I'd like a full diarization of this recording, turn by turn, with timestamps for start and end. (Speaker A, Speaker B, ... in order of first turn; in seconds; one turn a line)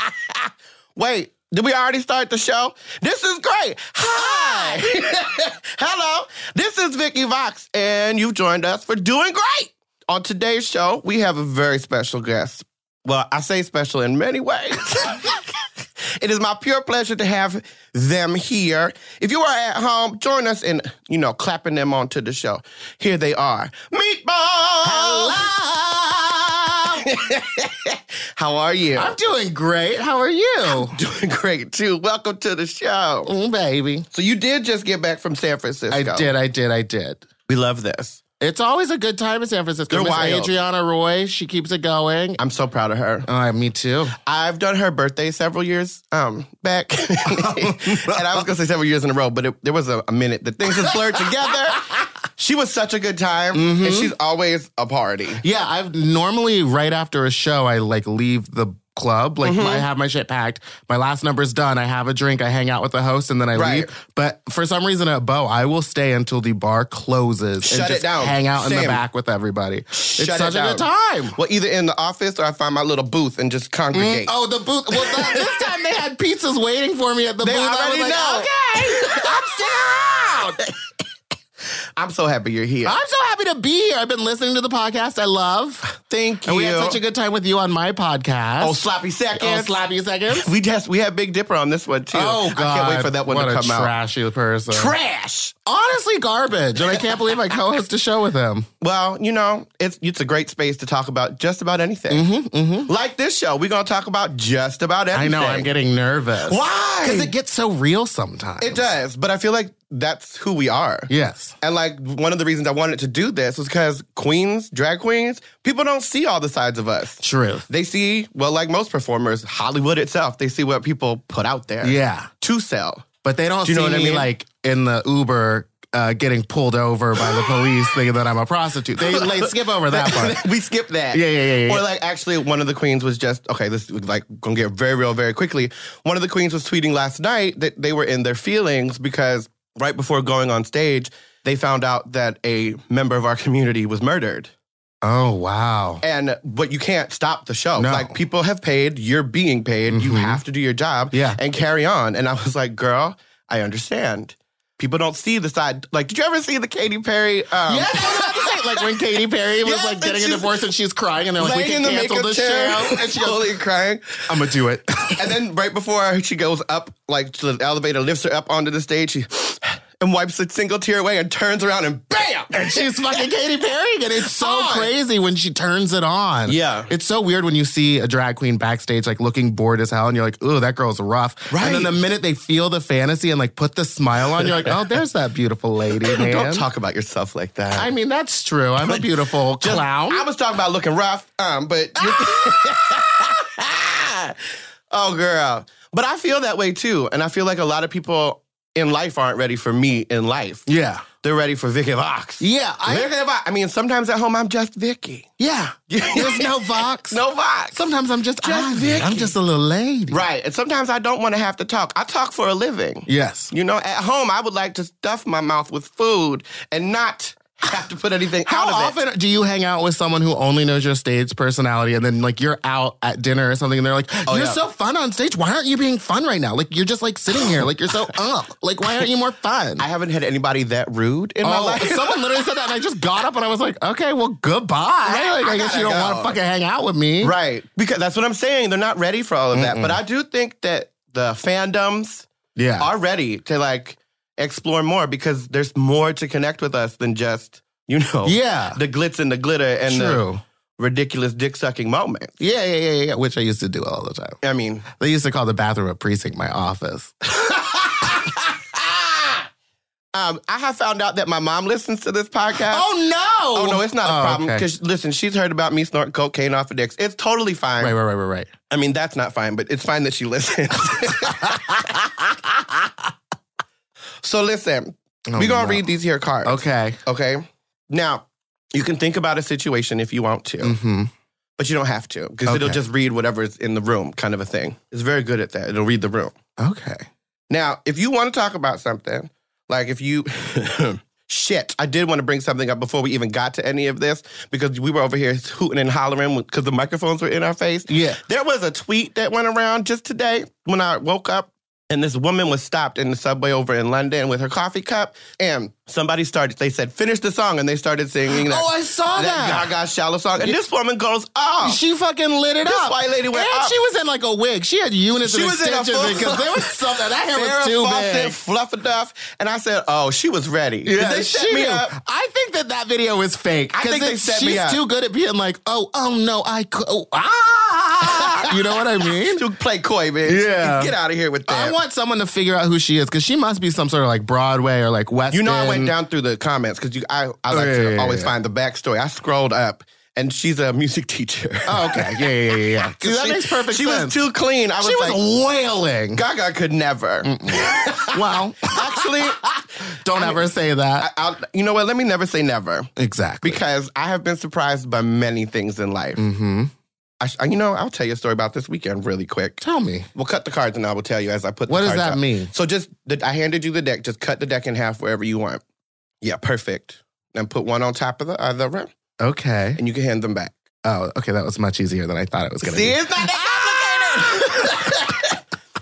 Speaker A: 0.9-15.4
Speaker B: 4.1-5.0
Speaker A: 16.2-25.5
Speaker B: 24.8-27.0
Speaker A: 26.9-29.1
Speaker B: 29.0-30.9
Speaker A: 30.8-33.3
Speaker B: 33.3-34.1
Speaker A: 34.1-36.3
Speaker B: 35.9-37.3
Speaker A: 37.5-38.2
Speaker B: 38.4-42.4
Speaker A: 39.9-40.5
Speaker A: 42.4-43.3
Speaker B: 43.3-44.1
Speaker A: 44.2-55.4
Speaker B: 47.3-48.4
Speaker B: 50.7-52.0
Speaker B: 53.5-54.1
Speaker B: 55.4-71.4
Speaker A: 59.4-59.9
Speaker A: 63.5-63.9
Speaker A: 67.6-69.0
Speaker A: 70.0-74.3
Speaker B: 73.9-80.7
Speaker A: 74.9-75.8
Speaker A: 77.4-80.4
Speaker A: 82.0-83.0
Speaker B: 82.8-85.9
Speaker A: 86.0-87.0
Speaker B: 86.5-88.8
Speaker A: 88.6-89.8
Speaker B: 89.3-90.5
Speaker A: 90.3-93.9
Speaker B: 92.1-95.0
Speaker A: 94.7-95.5
Speaker B: 95.7-98.7
Speaker A: 96.8-97.4
Speaker A: 98.8-102.2
Speaker B: 102.1-102.9
Speaker A: 102.9-105.7
Speaker B: 105.1-108.9
Speaker A: 106.5-107.3
Speaker A: 108.6-123.1
Speaker B: 111.1-111.6
Speaker B: 117.2-117.7
Speaker B: 121.8-122.3
Speaker B: 123.2-130.4
Speaker A: 123.6-124.3
Speaker A: 127.2-127.9
Speaker A: 129.0-144.5
Speaker B: 131.1-131.8
Speaker B: 145.0-146.0
Speaker A: 146.0-158.9
Speaker B: 147.8-148.2
Speaker B: 149.9-150.4
Speaker B: 151.1-151.4
Speaker B: 157.7-163.5
Speaker A: 159.6-160.6
Speaker A: 161.4-164.3
Speaker B: 164.3-165.3
Speaker A: 165.1-173.2
Speaker B: 172.5-186.7
Speaker A: 174.2-174.9
Speaker A: 176.5-176.9
Speaker A: 181.5-181.9
Speaker A: 184.4-184.8
Speaker A: 186.0-187.9
Speaker B: 187.8-190.3
Speaker A: 188.8-194.4
Speaker B: 192.0-193.0
Speaker A: 194.9-200.7
Speaker B: 200.7-201.1
Speaker A: 201.2-205.3
Speaker B: 202.4-203.1
Speaker B: 205.4-207.2
Speaker A: 205.9-207.8
Speaker B: 207.7-210.2
Speaker A: 208.4-209.3
Speaker A: 210.1-219.0
Speaker B: 213.1-213.5
Speaker B: 218.5-229.8
Speaker A: 224.3-224.6
Speaker A: 229.8-232.4
Speaker B: 231.4-237.3
Speaker A: 235.1-236.4
Speaker A: 237.2-242.3
Speaker B: 239.5-240.0
Speaker B: 242.6-242.9
Speaker A: 242.8-250.2
Speaker B: 248.3-248.8
Speaker B: 249.9-250.4
Speaker A: 250.8-252.3
Speaker B: 252.4-257.3
Speaker A: 254.4-254.9
Speaker A: 260.1-262.9
Speaker B: 262.6-264.6
Speaker A: 263.5-267.9
Speaker B: 267.8-268.5
Speaker A: 268.7-271.9
Speaker B: 271.2-272.7
Speaker A: 274.2-280.8
Speaker B: 275.3-275.8
Speaker B: 276.4-277.0
Speaker B: 280.6-281.1
Speaker A: 281.6-286.3
Speaker B: 282.5-282.8
Speaker B: 286.6-287.1
Speaker A: 287.5-311.8
Speaker B: 297.9-298.2
Speaker B: 308.3-309.7
Speaker B: 311.6-318.4
Speaker A: 312.6-313.8
Speaker A: 315.2-321.9
Speaker B: 320.9-329.4
Speaker A: 323.7-324.8
Speaker A: 328.0-328.5
Speaker A: 329.3-331.8
Speaker B: 330.3-330.9
Speaker B: 331.5-335.9
Speaker A: 335.3-345.2
Speaker B: 337.5-338.3
Speaker B: 341.7-344.2
Speaker B: 344.8-346.2
Speaker A: 346.1-349.5
Speaker B: 347.2-351.1
Speaker A: 350.1-350.4
Speaker A: 351.0-352.9
Speaker B: 353.0-353.6
Speaker A: 353.4-356.2
Speaker B: 356.2-356.7
Speaker A: 357.2-359.6
Speaker B: 359.6-360.1
Speaker A: 360.1-365.6
Speaker B: 361.7-362.5
Speaker A: 366.2-368.9
Speaker B: 369.2-369.8
Speaker A: 369.8-370.6
Speaker B: 370.8-375.3
Speaker A: 372.6-375.4